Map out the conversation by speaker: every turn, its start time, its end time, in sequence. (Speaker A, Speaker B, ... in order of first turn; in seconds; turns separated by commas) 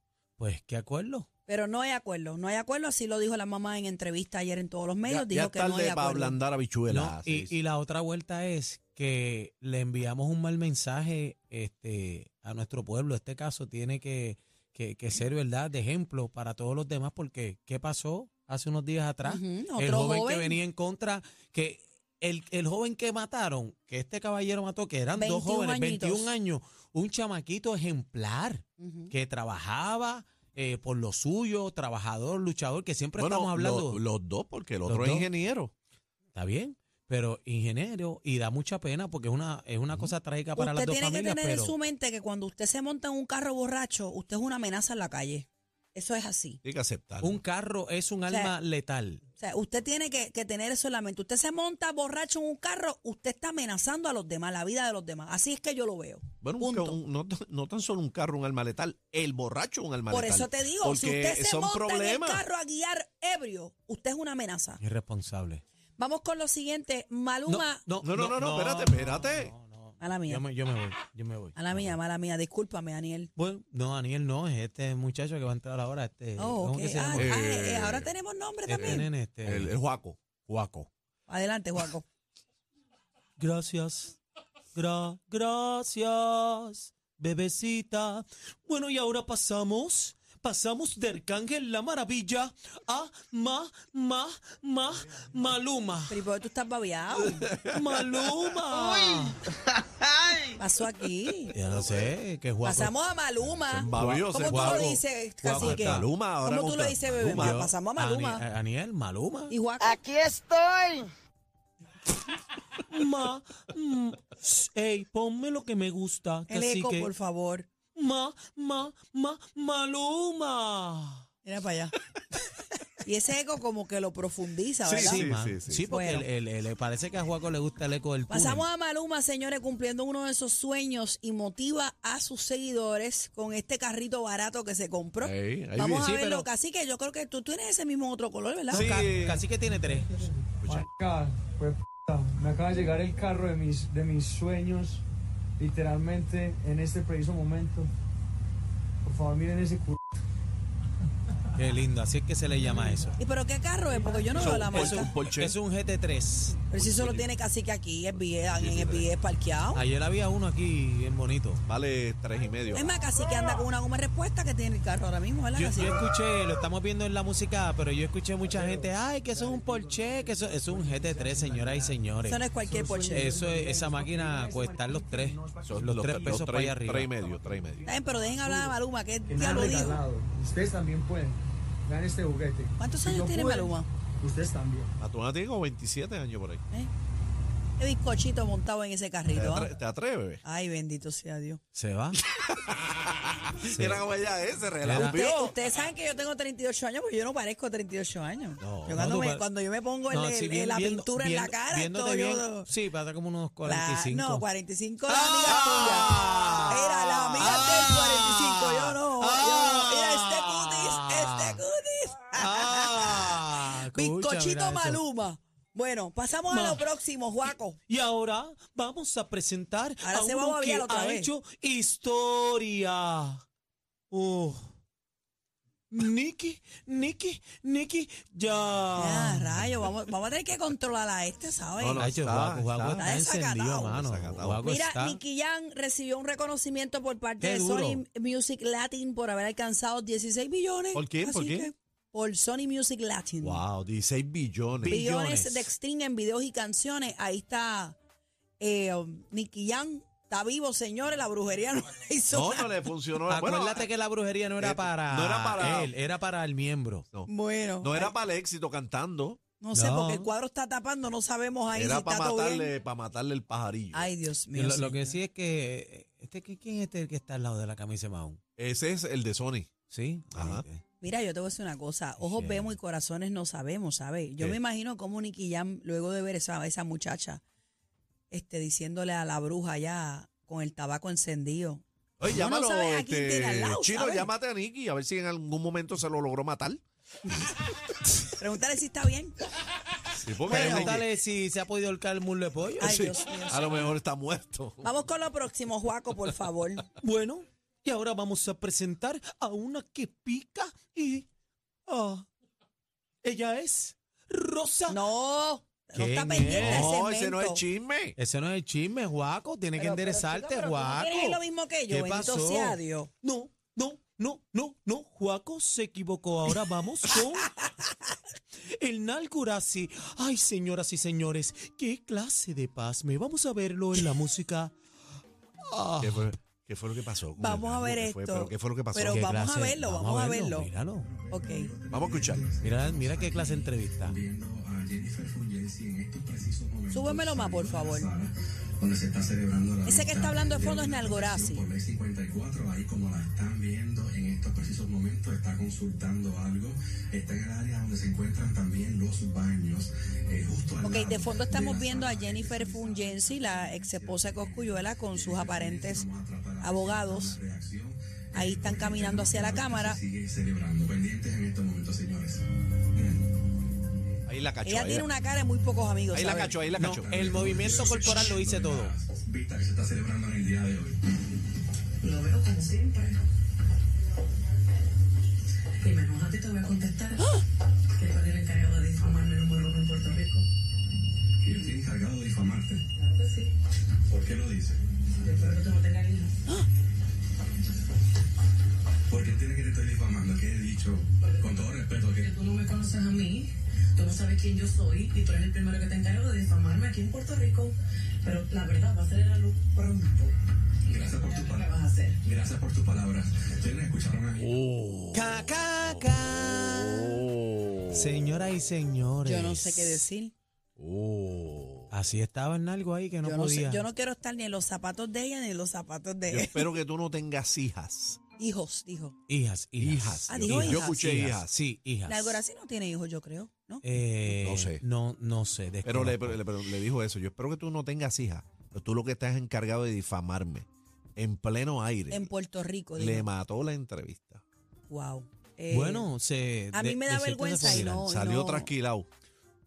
Speaker A: 0.4-1.3, Speaker B: 1.5-6.4, Speaker C: 5.0-7.5, Speaker A: 6.9-34.0, Speaker B: 19.2-20.6, Speaker B: 25.1-26.3, Speaker B: 28.8-29.1, Speaker C: 33.2-35.7, Speaker A: 34.9-35.3, Speaker A: 36.3-41.7, Speaker B: 40.6-46.6, Speaker C: 46.6-47.4, Speaker A: 47.2-49.2, Speaker B: 49.4-57.0, Speaker C: 56.4-62.4, Speaker B: 60.1-64.8, Speaker A: 64.8-65.6, Speaker B: 66.0-67.8, Speaker A: 67.5-72.0, Speaker C: 68.0-69.5, Speaker B: 70.0-70.4, Speaker B: 71.5-73.3, Speaker A: 73.3-77.3, Speaker B: 76.4-79.0, Speaker C: 77.1-78.1, Speaker A: 78.7-79.7, Speaker C: 78.7-80.7, Speaker A: 80.5-80.9, Speaker B: 81.3-82.0, Speaker A: 83.4-84.2, Speaker A: 84.7-96.2, Speaker B: 96.1-97.5, Speaker C: 97.4-98.3, Speaker A: 97.7-99.4, Speaker D: 98.7-99.3, Speaker B: 100.6-101.5, Speaker A: 101.5-102.9, Speaker C: 101.7-102.1, Speaker B: 102.6-108.4, Speaker C: 103.7-107.6, Speaker A: 103.9-106.1, Speaker A: 107.2-109.5, Speaker B: 109.5-110.0, Speaker D: 109.8-111.1, Speaker A: 112.9-117.1, Speaker B: 116.5-117.7, Speaker A: 117.9-121.3, Speaker B: 121.4-121.9, Speaker B: 123.0-125.3, Speaker C: 124.8-125.9, Speaker A: 125.0-128.6, Speaker B: 125.9-126.2, Speaker B: 128.3-139.0, Speaker C: 135.2-136.2, Speaker A: 136.0-136.5, Speaker C: 138.7-139.4, Speaker A: 138.7-140.1, Speaker E: 139.9-145.0, Speaker C: 140.6-140.9, Speaker E: 145.6-147.9, Speaker E: 149.0-150.0, Speaker A: 151.6-153.2, Speaker B: 153.2-155.1, Speaker C: 154.3-155.6, Speaker A: 154.4-156.6, Speaker B: 156.7-159.8, Speaker C: 156.7-157.3, Speaker C: 158.3-159.1, Speaker A: 159.7-161.6, Speaker C: 161.7-162.9, Speaker B: 162.7-166.0, Speaker A: 165.5-172.4, Speaker E: 168.4-184.9, Speaker B: 172.2-173.4, Speaker A: 173.1-177.1, Speaker C: 175.6-177.9, Speaker B: 177.8-180.0, Speaker B: 182.8-183.9, Speaker C: 185.0-186.6, Speaker B: 187.8-189.7, Speaker C: 189.3-190.4, Speaker B: 190.4-191.6, Speaker A: 191.7-192.2, Speaker C: 192.3-195.6, Speaker A: 193.7-194.1, Speaker A: 194.8-195.2, Speaker B: 194.9-202.7, Speaker C: 198.6-198.9, Speaker A: 198.8-199.4, Speaker A: 200.1-204.4, Speaker B: 203.6-206.1, Speaker A: 205.1-211.6, Speaker C: 206.1-206.5, Speaker B: 206.6-217.8, Speaker A: 212.3-215.0, Speaker A: 216.5-216.8, Speaker A: 217.9-223.4, Speaker B: 220.0-221.3, Speaker A: 224.1-224.7, Speaker A: 225.9-229.6, Speaker B: 228.9-232.0, Speaker C: 231.8-233.1, Speaker A: 232.0-235.2, Speaker B: 233.0-234.0, Speaker C: 233.9-234.6, Speaker B: 234.6-243.6, Speaker A: 237.4-238.0, Speaker C: 240.9-241.7, Speaker C: 243.4-245.0, Speaker A: 244.8-245.7, Speaker B: 244.9-248.0, Speaker B: 248.6-252.8, Speaker C: 252.3-253.9, Speaker A: 253.3-257.1, Speaker C: 254.6-255.9, Speaker B: 257.3-258.1, Speaker C: 257.8-259.4, Speaker B: 259.6-262.7, Speaker A: 259.7-260.3, Speaker C: 261.7-264.1, Speaker B: 263.9-265.2, Speaker A: 264.5-268.4, Speaker C: 268.6-269.7, Speaker A: 269.9-270.8, Speaker C: 270.3-270.6, Speaker B: 271.0-277.4, Speaker A: 272.2-272.7, Speaker B: 278.3-284.3, Speaker C: 282.2-286.8, Speaker B: 288.4-289.3, Speaker C: 290.2-291.1, Speaker A: 290.4-293.1, Speaker B: 290.5-290.9, Speaker C: 292.8-294.9, Speaker B: 292.8-293.9, Speaker B: 294.8-296.9, Speaker A: 297.0-301.3, Speaker A: 301.9-302.2, Speaker A: 303.2-305.0, Speaker B: 304.9-307.6, Speaker A: 305.9-306.9, Speaker C: 306.5-308.1, Speaker A: 308.2-317.6, Speaker B: 309.8-313.1, Speaker A: 318.7-324.7, Speaker A: 325.7-326.3, Speaker C: 326.0-329.3, Speaker B: 327.4-330.7, Speaker A: 329.0-331.1, Speaker F: 331.1-363.2, Speaker B: 331.3-331.7, Speaker C: 331.9-332.5, Speaker A: 332.6-334.1, Speaker B: 336.9-338.1, Speaker B: 339.8-341.6, Speaker B: 350.8-356.1, Speaker B: 356.6-357.4, Speaker B: 358.3-360.0, Speaker C: 364.3-365.1, Speaker B: 364.6-366.6, Speaker C: 366.1-368.2, Speaker F: 366.7-371.0, Speaker A: 366.8-368.9, Speaker G: 372.0-373.2, Speaker G: 375.8-377.4, Speaker G: 377.9-380.4, Speaker F: 381.4-382.8, Speaker G: 383.0-383.5, Speaker F: 384.1-384.8, Speaker G: 385.2-386.4, Speaker F: 389.1-392.3, Speaker G: 391.2-391.6, Speaker G: 392.2-400.3, Speaker F: 400.9-404.6, Speaker G: 400.9-402.2, Speaker C: 404.4-408.5, Speaker A: 405.1-407.2, Speaker A: 407.9-410.0, Speaker B: 409.2-410.3, Speaker C: 410.8-411.9, Speaker A: 411.9-413.8, Speaker B: 413.2-416.7, Speaker C: 416.3-418.2, Speaker B: 418.4-419.1, Speaker A: 419.3-422.4, Speaker C: 419.8-421.5, Speaker B: 420.3-421.0, Speaker B: 422.1-423.8, Speaker A: 423.8-426.4, Speaker C: 424.3-424.8, Speaker C: 425.8-432.3, Speaker B: 432.1-433.3, Speaker C: 433.0-434.4, Speaker B: 434.9-436.1, Speaker A: 435.7-438.0, Speaker B: 436.7-438.7, Speaker C: 437.9-439.1